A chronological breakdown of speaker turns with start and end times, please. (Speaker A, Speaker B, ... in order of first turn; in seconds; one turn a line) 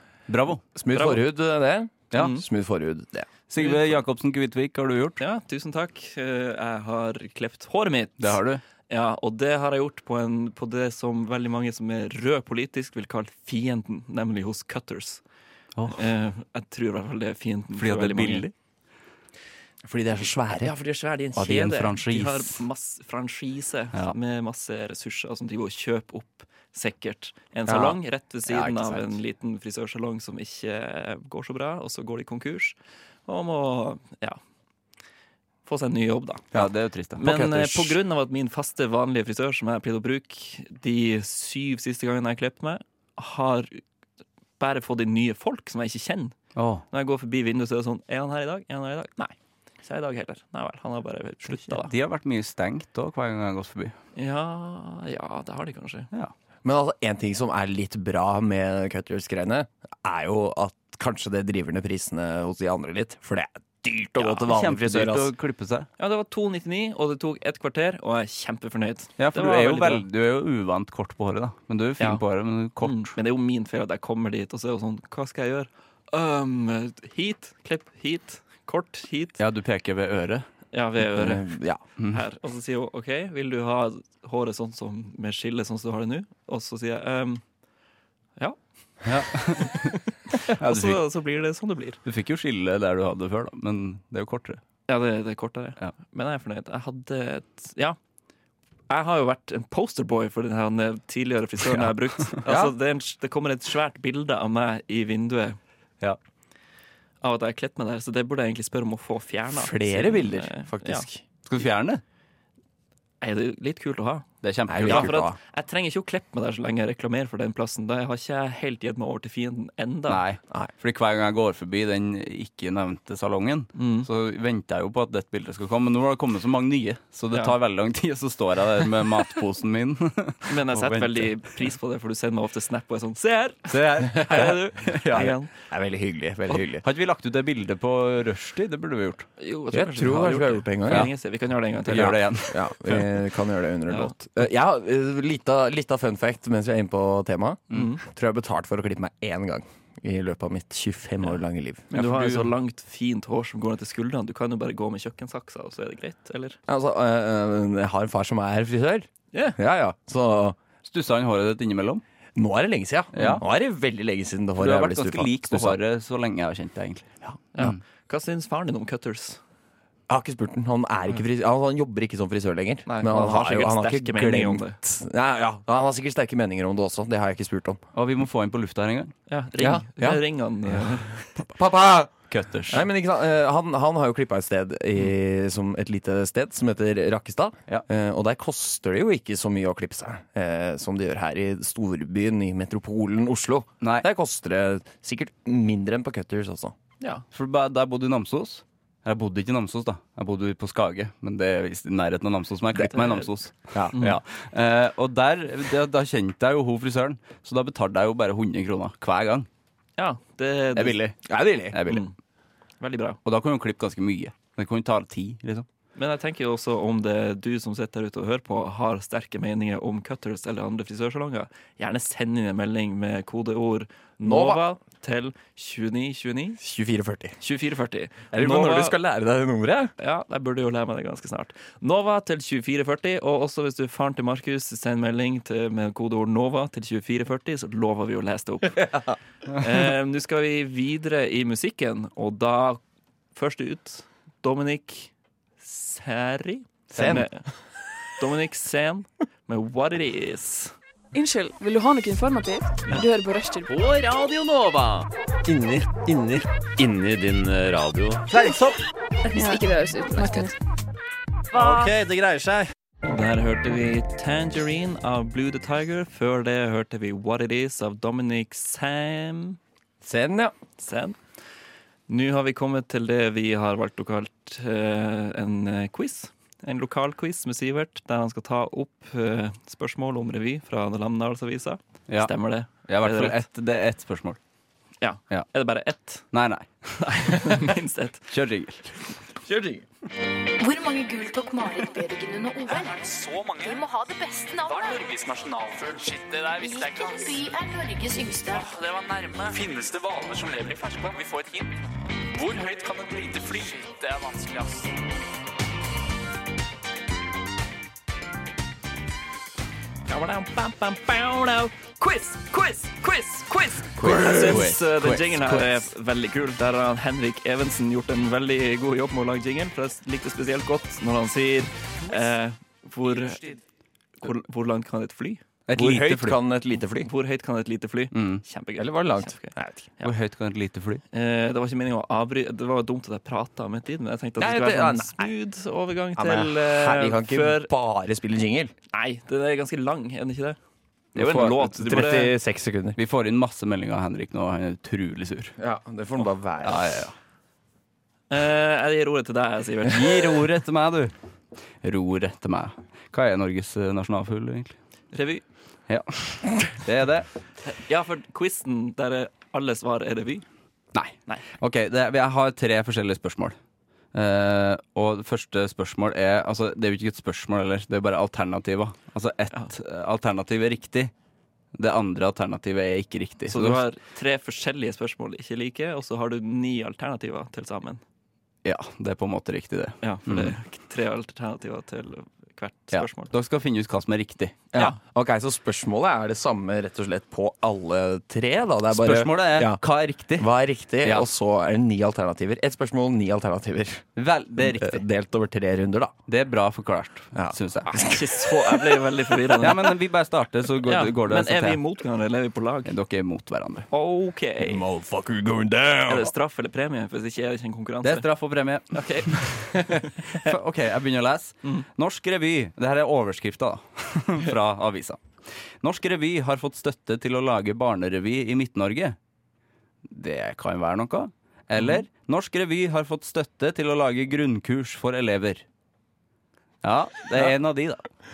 Speaker A: 0.3-0.6
Speaker B: 0.8-3.3
Speaker C: 0.9-1.2
Speaker C: 2.1-2.5
Speaker A: 3.5-5.2
Speaker C: 3.6-4.0
Speaker C: 5.2-15.2
Speaker A: 8.2-8.6
Speaker A: 15.8-16.0
Speaker C: 15.9-18.5
Speaker A: 17.8-18.5
Speaker B: 19.9-20.7
Speaker C: 20.6-34.4
Speaker A: 21.4-22.6
Speaker B: 27.7-28.0
Speaker C: 35.7-36.5
Speaker A: 36.5-37.2
Speaker C: 37.2-43.8
Speaker B: 37.2-38.0
Speaker C: 44.6-46.4
Speaker A: 46.5-46.8
Speaker C: 46.9-51.9
Speaker A: 51.5-54.0
Speaker C: 54.2-56.1
Speaker B: 56.6-65.3
Speaker A: 64.5-65.9
Speaker C: 66.0-70.0
Speaker A: 69.2-73.1
Speaker C: 72.8-79.4
Speaker A: 79.4-80.5
Speaker C: 80.7-81.5
Speaker B: 81.0-81.8
Speaker C: 82.0-87.4
Speaker C: 88.4-92.0
Speaker A: 89.0-91.0
Speaker A: 92.0-94.6
Speaker C: 94.9-98.0
Speaker C: 98.9-105.6
Speaker B: 102.5-102.7
Speaker C: 107.2-111.1
Speaker B: 109.5-111.2
Speaker A: 111.5-112.0
Speaker C: 113.2-114.3
Speaker A: 114.4-115.2
Speaker B: 114.7-115.4
Speaker C: 114.8-120.2
Speaker A: 120.1-131.4
Speaker C: 123.8-124.1
Speaker C: 130.4-135.5
Speaker A: 133.7-135.3
Speaker B: 135.2-136.8
Speaker A: 136.5-139.3
Speaker C: 139.4-142.2
Speaker B: 139.7-141.1
Speaker A: 141.8-143.1
Speaker B: 141.9-151.9
Speaker C: 143.9-144.2
Speaker C: 147.7-148.0
Speaker C: 151.9-156.6
Speaker A: 151.9-152.5
Speaker B: 156.7-160.6
Speaker C: 159.3-159.6
Speaker A: 160.8-162.0
Speaker B: 162.3-165.8
Speaker A: 163.2-163.4
Speaker A: 164.6-167.8
Speaker C: 167.6-169.4
Speaker B: 170.1-177.8
Speaker C: 172.9-174.8
Speaker A: 177.9-179.1
Speaker C: 179.3-181.3
Speaker B: 179.6-180.2
Speaker B: 181.4-196.8
Speaker A: 182.3-182.9
Speaker A: 197.3-209.5
Speaker C: 202.9-203.3
Speaker B: 203.7-204.0
Speaker C: 203.9-204.2
Speaker C: 210.0-211.0
Speaker A: 210.8-212.1
Speaker B: 211.2-211.8
Speaker C: 211.9-212.1
Speaker C: 212.8-213.2
Speaker A: 213.2-215.7
Speaker C: 216.0-226.6
Speaker B: 224.2-224.6
Speaker B: 226.6-227.4
Speaker C: 227.4-229.0
Speaker B: 228.3-229.9
Speaker C: 230.0-239.0
Speaker B: 238.8-239.1
Speaker C: 239.6-242.8
Speaker C: 243.3-247.5
Speaker B: 246.9-247.3
Speaker A: 247.0-247.2
Speaker C: 248.2-250.7
Speaker D: 251.1-253.7
Speaker A: 253.8-254.1
Speaker E: 253.8-258.6
Speaker A: 258.3-258.8
Speaker D: 259.3-260.6
Speaker E: 261.5-262.7
Speaker C: 263.1-269.6
Speaker B: 270.0-270.5
Speaker C: 270.8-271.2
Speaker C: 272.1-283.4
Speaker A: 282.1-284.4
Speaker C: 285.0-286.3
Speaker A: 286.3-287.6
Speaker C: 287.0-288.3
Speaker A: 288.3-289.0
Speaker B: 289.4-289.9
Speaker F: 290.6-295.2
Speaker G: 292.8-293.8
Speaker G: 294.7-297.3
Speaker F: 296.5-298.7
Speaker G: 298.6-301.7
Speaker G: 302.3-304.9
Speaker C: 310.1-323.6
Speaker A: 314.0-315.8
Speaker C: 324.2-325.4
Speaker A: 325.7-326.4
Speaker B: 325.7-327.1
Speaker C: 327.0-330.1
Speaker A: 328.1-328.4
Speaker B: 328.8-329.9
Speaker A: 330.0-331.0
Speaker C: 331.1-337.7
Speaker B: 334.4-335.3
Speaker B: 336.2-338.7
Speaker C: 338.9-340.6
Speaker C: 341.1-342.4
Speaker B: 341.2-343.0
Speaker A: 341.2-341.6
Speaker A: 343.0-345.6
Speaker B: 345.6-347.0
Speaker A: 346.6-347.1
Speaker C: 348.3-350.4
Speaker A: 349.9-351.1
Speaker A: 351.8-354.8
Speaker C: 355.1-355.4
Speaker A: 355.9-357.3
Speaker C: 357.7-360.4
Speaker A: 360.9-363.6
Speaker A: 364.1-371.1
Speaker A: 371.8-373.9
Speaker C: 373.5-378.0
Speaker A: 378.6-380.6
Speaker C: 380.0-383.3
Speaker A: 382.9-384.6
Speaker B: 384.7-389.8
Speaker A: 388.9-390.5
Speaker B: 390.4-396.1
Speaker A: 391.0-391.3
Speaker A: 394.2-395.0
Speaker A: 396.3-398.0
Speaker B: 397.4-399.0
Speaker C: 397.9-400.0
Speaker A: 399.6-401.8
Speaker C: 400.9-402.9
Speaker A: 402.9-403.9
Speaker C: 403.9-404.8
Speaker B: 404.6-406.3
Speaker C: 406.1-408.3
Speaker A: 408.0-415.2
Speaker C: 408.9-410.5
Speaker A: 415.8-419.2
Speaker A: 420.1-425.6
Speaker A: 426.8-428.1